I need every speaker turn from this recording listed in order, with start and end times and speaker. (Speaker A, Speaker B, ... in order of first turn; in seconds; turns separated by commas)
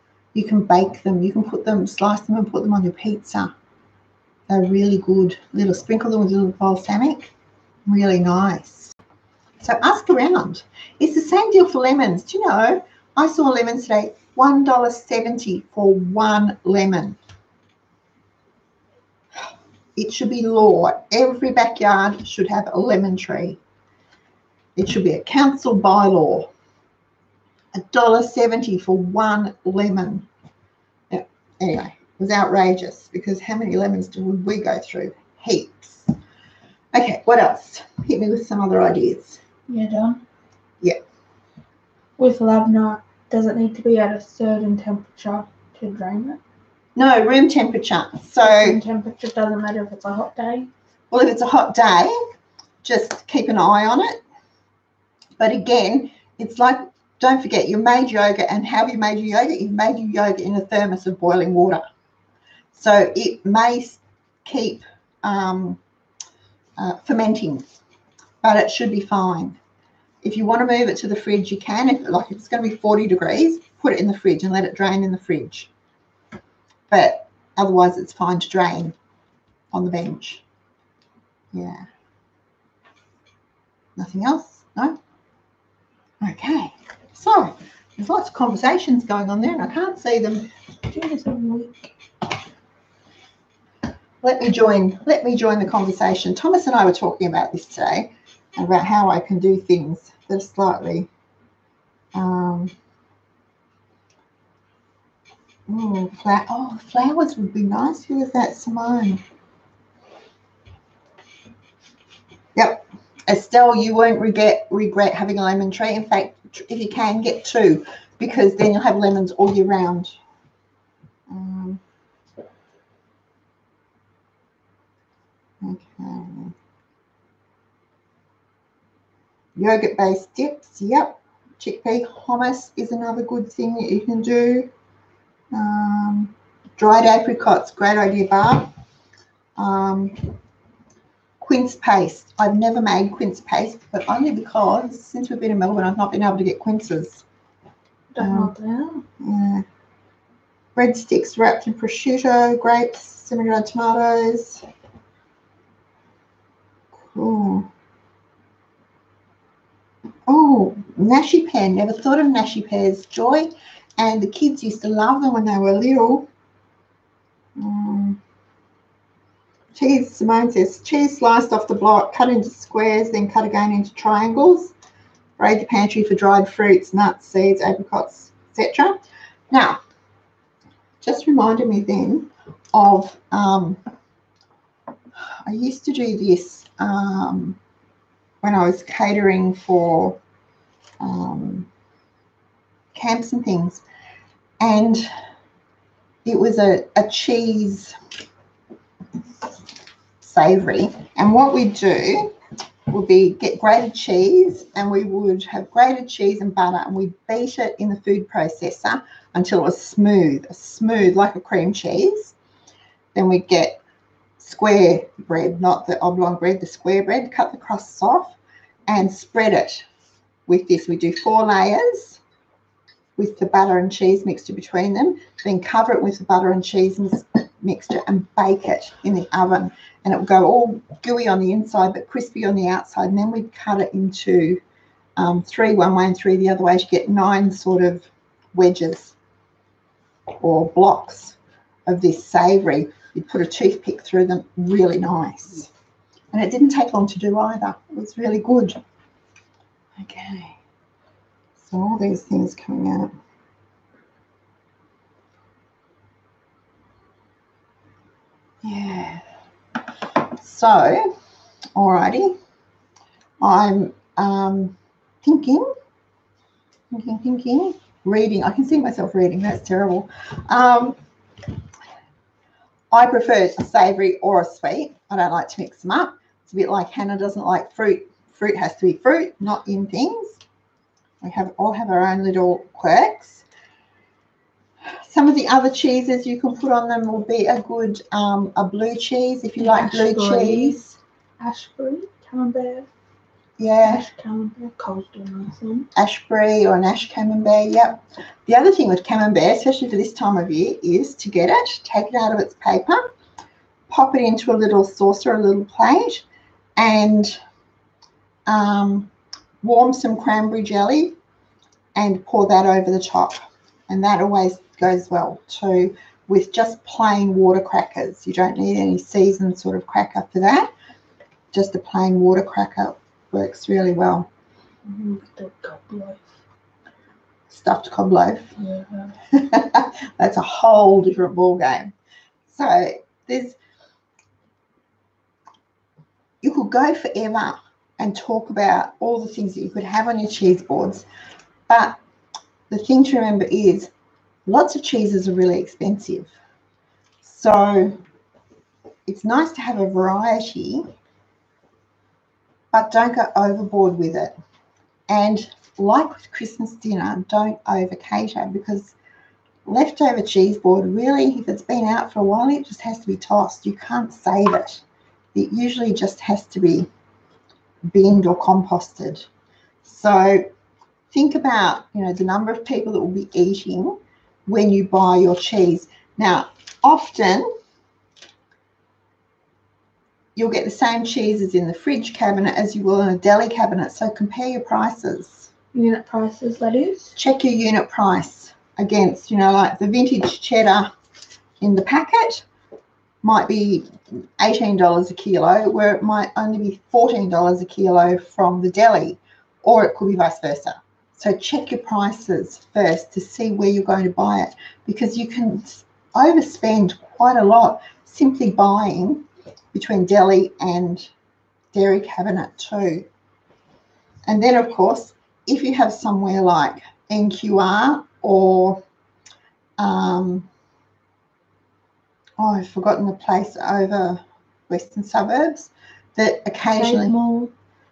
Speaker A: 0.3-3.5, Speaker A: 4.5-7.3, Speaker A: 7.9-8.9, Speaker A: 9.6-17.2, Speaker A: 20.0-23.6, Speaker A: 24.8-26.5, Speaker A: 27.7-30.3, Speaker A: 31.1-36.1, Speaker A: 36.9-39.4, Speaker B: 39.7-40.2, Speaker B: 42.2-46.4, Speaker A: 47.0-48.8, Speaker B: 48.4-50.7, Speaker A: 51.1-52.2, Speaker A: 52.8-54.2, Speaker A: 55.4-61.8, Speaker A: 62.7-65.8, Speaker A: 66.8-67.7, Speaker A: 68.4-69.6, Speaker A: 70.2-75.7, Speaker A: 76.9-79.0, Speaker A: 79.7-80.4, Speaker A: 81.5-81.8, Speaker A: 84.0-85.0, Speaker A: 86.2-90.5, Speaker B: 90.9-92.0, Speaker A: 94.2-101.1, Speaker A: 102.1-102.7, Speaker A: 105.7-109.2, Speaker A: 112.6-120.2, Speaker A: 121.3-121.8, Speaker A: 125.6-126.5, Speaker A: 129.6-134.7, Speaker A: 135.5-138.7, Speaker A: 139.6-140.3, Speaker A: 141.4-147.2, Speaker B: 148.2-149.1, Speaker A: 148.2-148.5, Speaker A: 149.2-149.7, Speaker A: 150.8-154.6, Speaker A: 157.0-157.7, Speaker A: 160.3-166.3, Speaker A: 167.6-168.2, Speaker A: 169.8-174.7, Speaker A: 175.4-179.0, Speaker A: 179.5-179.8, Speaker A: 181.0-183.8, Speaker A: 185.4-187.6, Speaker A: 188.4-190.2, Speaker A: 191.0-191.7, Speaker A: 192.9-193.8, Speaker A: 194.6-195.1, Speaker A: 196.2-197.9, Speaker A: 200.2-202.3, Speaker A: 202.9-212.3, Speaker A: 213.2-213.8, Speaker A: 214.4-218.4, Speaker A: 218.9-219.8, Speaker A: 220.5-222.2, Speaker A: 223.2-234.6, Speaker A: 235.2-239.2, Speaker A: 240.4-245.7, Speaker A: 246.3-248.8, Speaker A: 250.0-250.6, Speaker A: 251.6-253.1, Speaker A: 258.6-259.2, Speaker A: 260.4-261.1, Speaker A: 261.8-262.4, Speaker A: 263.4-265.7, Speaker A: 266.9-271.0, Speaker A: 272.9-280.4, Speaker A: 281.2-283.4, Speaker A: 285.0-291.0, Speaker B: 289.6-290.8, Speaker B: 291.4-292.9, Speaker A: 293.6-294.1, Speaker B: 293.8-295.9, Speaker A: 296.0-303.0, Speaker A: 303.9-306.2, Speaker A: 306.8-307.4, Speaker A: 308.5-309.1, Speaker A: 309.6-311.2, Speaker A: 311.9-313.4, Speaker A: 313.9-320.7, Speaker A: 321.5-324.3, Speaker B: 324.9-326.2, Speaker A: 327.5-328.5, Speaker B: 328.6-329.1, Speaker A: 329.3-331.9, Speaker A: 332.5-333.6, Speaker A: 336.4-341.1, Speaker A: 341.7-342.0, Speaker A: 342.7-343.9, Speaker A: 344.5-346.3, Speaker A: 347.2-348.0, Speaker A: 349.1-350.9, Speaker A: 352.7-354.3, Speaker A: 355.1-358.9, Speaker A: 359.6-364.8, Speaker A: 365.3-366.9, Speaker A: 367.9-369.3, Speaker A: 369.8-370.4, Speaker A: 371.1-377.5, Speaker A: 380.4-385.5, Speaker B: 385.7-387.1, Speaker A: 387.2-390.9, Speaker A: 391.6-392.4, Speaker A: 393.2-393.9, Speaker A: 394.4-411.1, Speaker A: 411.7-413.1, Speaker A: 414.3-418.8, Speaker A: 419.8-420.5, Speaker A: 422.4-427.1, Speaker B: 426.8-427.5